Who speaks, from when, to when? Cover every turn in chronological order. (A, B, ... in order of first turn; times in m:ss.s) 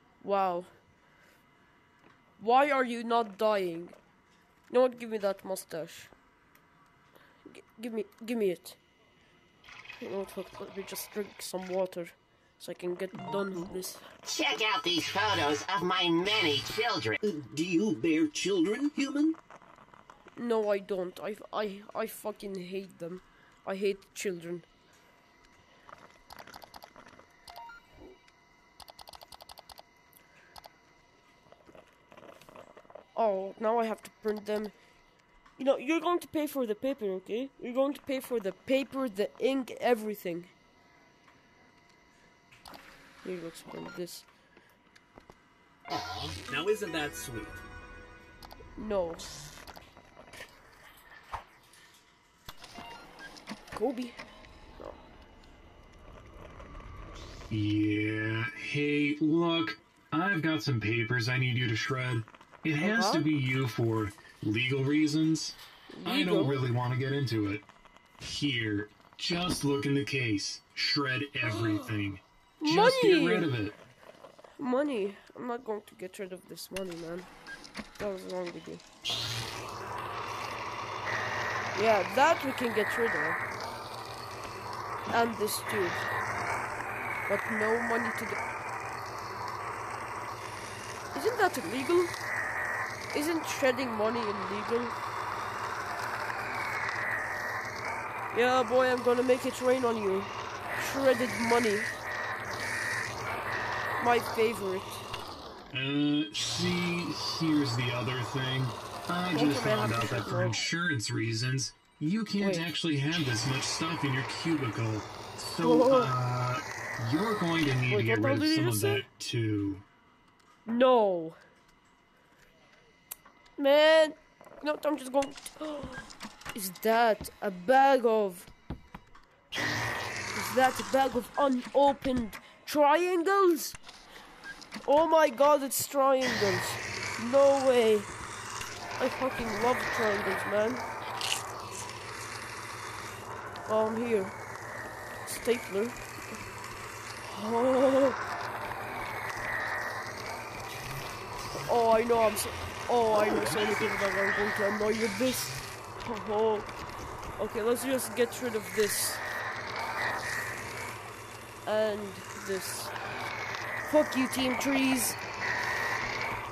0:00.2-0:00.7 A
0:02.4-0:03.9 A
0:04.7-0:06.1 A
0:07.5-0:08.8 A
0:10.0-0:14.0 A
0:14.2-0:17.2 B
0:17.2-0:19.4 C
0:20.4-0:24.6 A
0:33.2-0:34.7 A
0:35.6-0:40.5 A
0:43.2-0:44.2 A
0:45.9-0:47.6 D
0:48.8-0:49.2 A
0:53.7-0:54.2 A
0:57.5-1:07.6 E
1:02.8-1:03.3 A
1:05.9-1:06.6 A
1:08.2-1:13.8 E
1:11.4-1:11.9 A
1:12.6-1:13.5 A
1:14.6-1:17.3 A
1:18.0-1:18.8 A
1:21.7-1:23.4 A
1:25.1-1:26.1 A
1:27.3-1:28.4 A
1:31.1-1:32.1 A
1:33.1-1:34.9 A
1:38.3-1:41.9 A
1:44.0-1:45.0 A
1:45.7-1:59.8 E
1:49.3-1:50.6 A
1:52.4-1:52.7 A
1:55.6-1:56.1 A
1:57.9-1:59.0 A
2:00.6-2:01.4 A
2:03.6-2:08.5 A
2:10.3-2:13.8 A
2:14.8-2:18.1 A
2:19.0-2:20.8 A
2:23.6-2:24.3 A
2:25.2-2:26.0 A
2:27.2-2:28.2 A
2:31.5-2:36.7 A
2:33.1-2:33.9 D
2:37.4-2:39.2 A
2:41.6-2:42.9 A
2:43.8-2:45.2 A